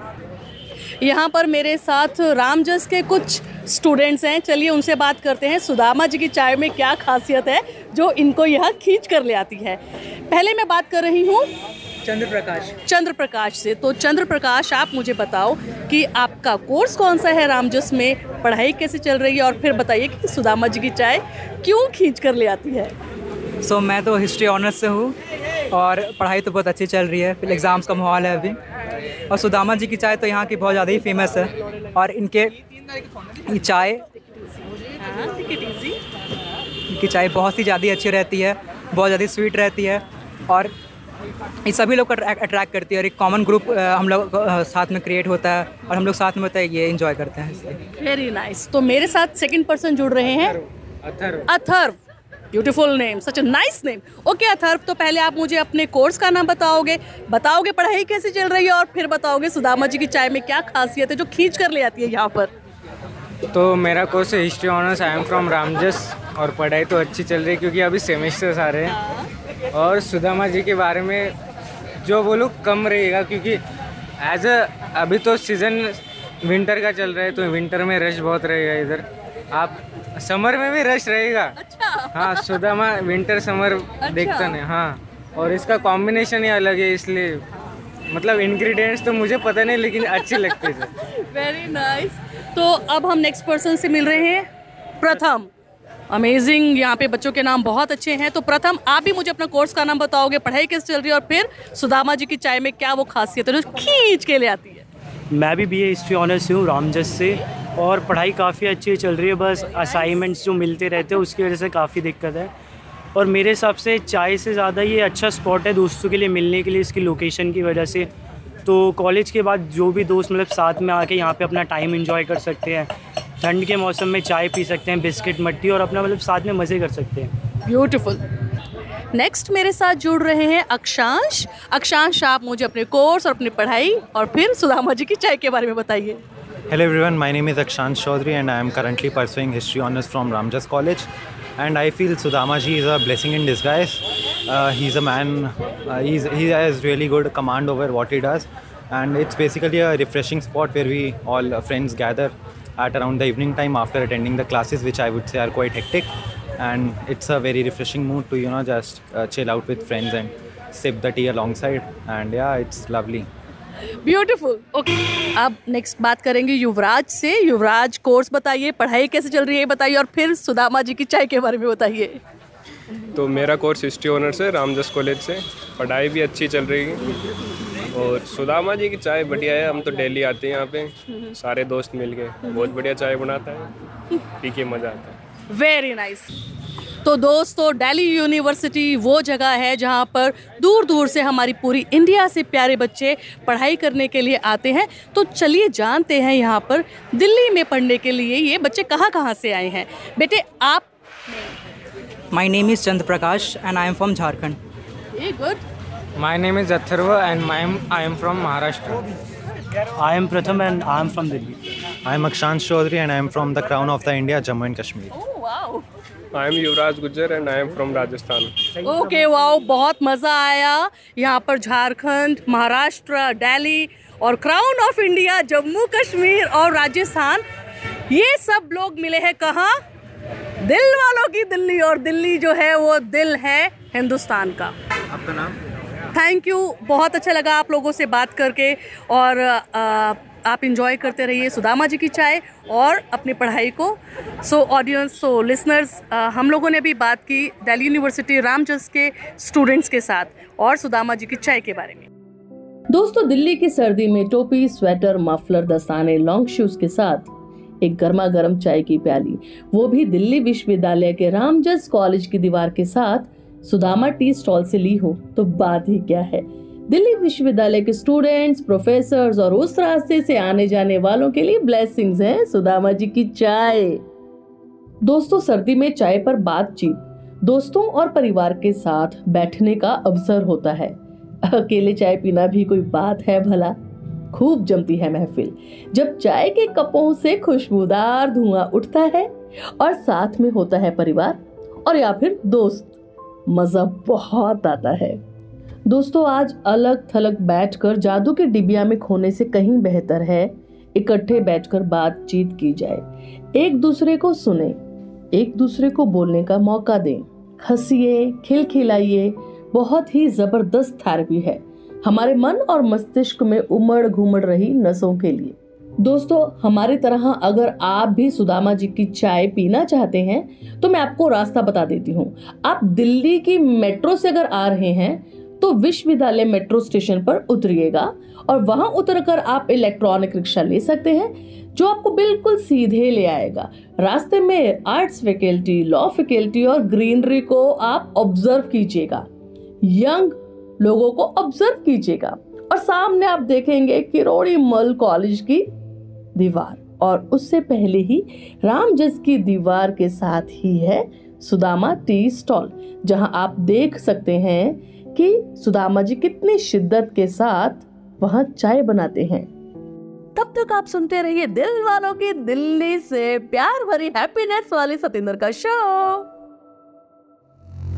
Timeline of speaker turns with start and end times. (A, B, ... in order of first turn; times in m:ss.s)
0:01.0-0:11.5 A
0:12.1-0:12.7 B
0:12.8-0:23.0 A
0:23.6-0:25.2 B
0:25.7-0:28.6 B
0:29.3-0:32.6 B
0:33.5-0:34.0 B
0:35.0-0:36.0 A
0:36.9-0:40.7 B
0:41.7-0:47.8 B
0:48.0-0:50.6 A
0:51.0-0:51.5 C
0:51.5-0:52.0 A
0:52.5-1:02.5 A
1:03.5-1:09.0 C
1:09.7-1:11.4 C
1:12.0-1:13.6 C
1:14.2-1:21.6 C
1:21.6-1:22.5 A
1:22.1-1:27.4 C
1:24.0-1:24.6 A
1:28.1-1:30.9 C
1:30.3-1:30.6 A
1:31.2-1:34.5 A
1:35.0-1:35.5 A
1:36.1-1:44.8 A
1:45.3-1:52.5 D
1:53.2-1:58.1 D
1:58.6-2:02.9 D
2:03.4-2:07.3 D
2:07.6-2:08.2 A
2:09.1-2:16.2 A
2:16.7-2:43.3 E
2:44.0-2:52.2 A
2:53.2-2:57.0 F
2:57.9-3:03.7 F
3:04.4-3:05.2 F
3:05.5-3:06.3 A
3:07.0-3:20.9 A
3:22.3-3:24.6 B
3:25.2-3:25.6 A
3:26.2-3:29.0 C
3:30.0-3:31.6 D
3:32.0-3:35.1 E
3:35.1-3:35.8 A
3:36.3-3:38.5 F
3:38.8-3:47.4 A
3:48.1-3:49.8 A
3:50.6-3:54.7 A
3:56.1-4:12.1 A
4:12.9-4:17.3 A
4:17.8-4:34.0 A
4:35.0-4:43.8 A
4:44.3-4:53.0 A
4:53.5-4:55.2 A
4:55.9-5:04.8 A
5:05.3-5:39.3 A
5:39.8-5:45.7 A
5:46.4-5:59.5 A
6:00.4-6:06.3 A